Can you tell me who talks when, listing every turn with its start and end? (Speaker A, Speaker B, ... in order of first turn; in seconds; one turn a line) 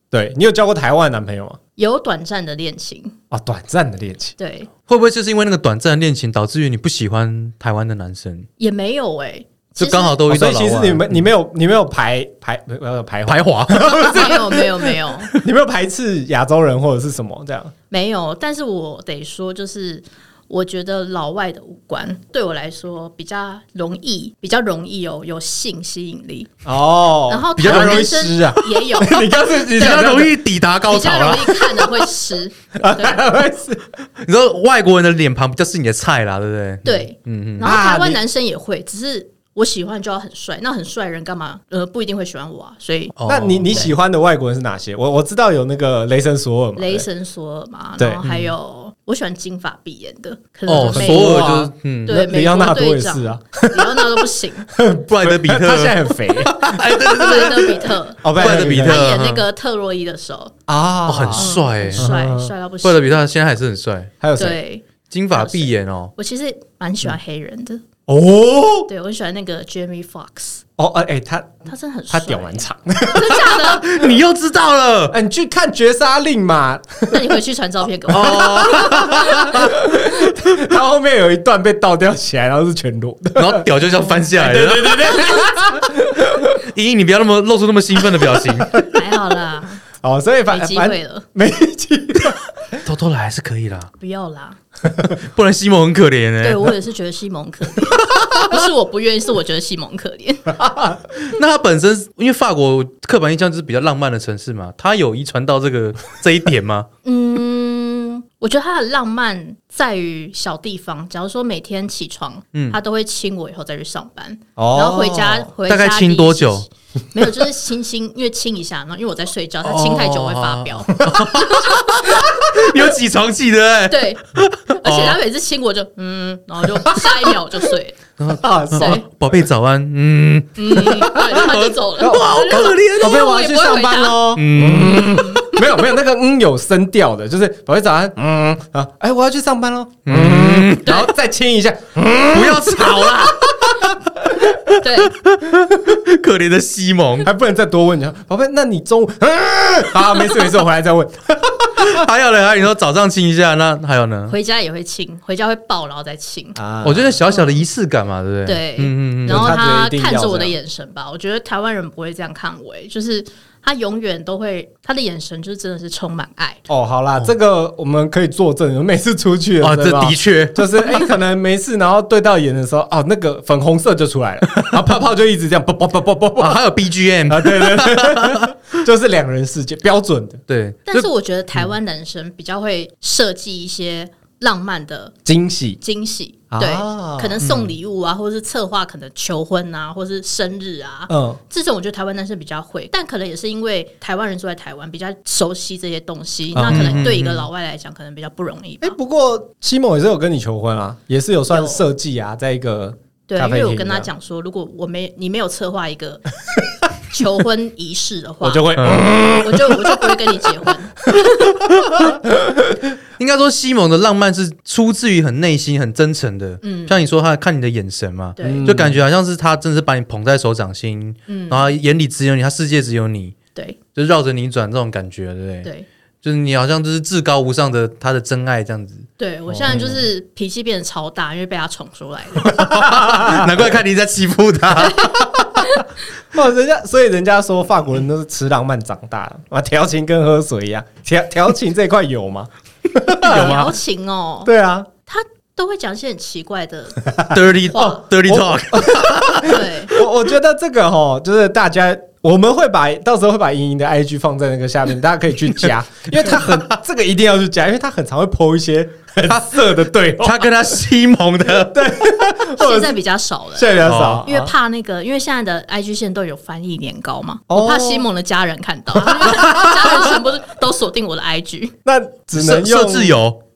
Speaker A: 0.1-1.6
Speaker B: 1.8-3.1
Speaker A: 3.3-4.4
Speaker B: 4.4-4.7
Speaker C: 4.9-8.5
Speaker B: 8.6-10.2
Speaker C: 9.8-11.2
Speaker A: 10.3-17.7
Speaker C: 13.3-14.4
Speaker B: 13.8-15.3
Speaker B: 17.9-26.5
Speaker A: 26.6-30.4
Speaker B: 27.3-29.3
Speaker C: 27.6-28.5
Speaker C: 29.5-32.0
Speaker B: 30.9-33.3
Speaker A: 32.8-33.9
Speaker C: 34.2-37.8
Speaker B: 36.8-43.2
Speaker A: 37.6-38.2
Speaker C: 43.2-43.9
Speaker A: 43.3-47.1
Speaker B: 46.8-54.7
Speaker A: 48.0-48.2
Speaker C: 48.2-48.5
Speaker C: 50.7-52.2
Speaker A: 50.9-57.6
Speaker C: 55.1-59.5
Speaker B: 57.0-60.5
Speaker A: 58.2-59.1
Speaker A: 60.7-62.5
Speaker C: 61.1-62.1
Speaker B: 61.3-63.2
Speaker C: 62.8-64.1
Speaker A: 64.2-64.6
Speaker B: 64.4-67.8
Speaker C: 65.1-66.1
Speaker A: 68.1-68.9
Speaker B: 68.9-70.6
Speaker A: 70.8-73.6
Speaker B: 71.7-74.0
Speaker C: 73.6-75.2
Speaker A: 75.1-77.3
Speaker B: 77.1-79.5
Speaker C: 78.1-79.8
Speaker A: 78.1-83.7
Speaker C: 83.4-85.3
Speaker A: 84.3-86.6
Speaker C: 86.5-88.8
Speaker A: 88.0-88.9
Speaker B: 88.9-89.8
Speaker A: 90.0-92.8
Speaker B: 90.5-91.2
Speaker C: 92.8-93.9
Speaker B: 94.0-94.6
Speaker C: 95.2-96.7
Speaker B: 96.4-100.6
Speaker A: 100.5-101.0
Speaker C: 101.2-106.9
Speaker B: 107.0-122.3
Speaker A: 114.6-115.5
Speaker C: 115.7-116.7
Speaker C: 119.6-125.2
Speaker A: 122.4-122.8
Speaker B: 123.9-128.0
Speaker A: 126.9-127.3
Speaker C: 128.2-133.2
Speaker A: 128.4-129.0
Speaker B: 128.7-129.1
Speaker B: 130.6-134.3
Speaker A: 130.8-144.8
Speaker C: 134.3-135.4
Speaker B: 135.0-135.6
Speaker C: 140.1-141.0
Speaker B: 140.8-141.1
Speaker C: 142.3-143.5
Speaker B: 144.8-145.2
Speaker C: 145.2-147.3
Speaker A: 147.2-152.1
Speaker C: 151.8-154.3
Speaker B: 154.3-156.6
Speaker A: 156.6-157.2
Speaker C: 156.8-159.5
Speaker B: 157.3-157.6
Speaker B: 158.4-166.7
Speaker A: 159.2-160.6
Speaker A: 166.7-176.6
Speaker C: 169.6-171.1
Speaker C: 174.5-174.9
Speaker C: 176.4-178.7
Speaker A: 177.3-180.4
Speaker C: 180.5-181.1
Speaker B: 180.9-185.2
Speaker A: 185.2-185.8
Speaker B: 185.8-199.0
Speaker A: 186.5-187.7
Speaker A: 191.1-191.4
Speaker A: 196.6-197.2
Speaker C: 196.7-197.5
Speaker A: 198.8-204.1
Speaker B: 201.5-201.9
Speaker B: 203.3-206.3
Speaker B: 207.1-211.7
Speaker A: 208.4-210.5
Speaker C: 208.8-209.1
Speaker A: 211.1-212.8
Speaker C: 213.2-223.3
Speaker B: 216.6-217.0
Speaker B: 218.4-218.8
Speaker A: 218.4-219.0
Speaker B: 221.3-221.7
Speaker C: 223.9-225.7
Speaker C: 226.2-229.1
Speaker B: 229.2-233.1
Speaker A: 229.5-229.9
Speaker C: 229.6-230.0
Speaker C: 232.4-235.1
Speaker A: 232.5-233.5
Speaker B: 234.8-235.9
Speaker A: 235.0-235.8
Speaker A: 236.3-243.6
Speaker C: 243.2-243.8
Speaker B: 243.2-244.5
Speaker A: 244.4-244.9
Speaker B: 245.1-248.0
Speaker A: 247.1-260.6
Speaker C: 247.3-249.6
Speaker B: 249.4-249.9
Speaker C: 256.2-256.6
Speaker C: 260.2-261.9
Speaker A: 261.5-263.0
Speaker B: 262.5-271.8
Speaker A: 263.6-264.5
Speaker C: 263.8-264.2
Speaker A: 267.5-268.1
Speaker A: 269.3-269.6
Speaker A: 271.9-273.2
Speaker C: 272.4-273.4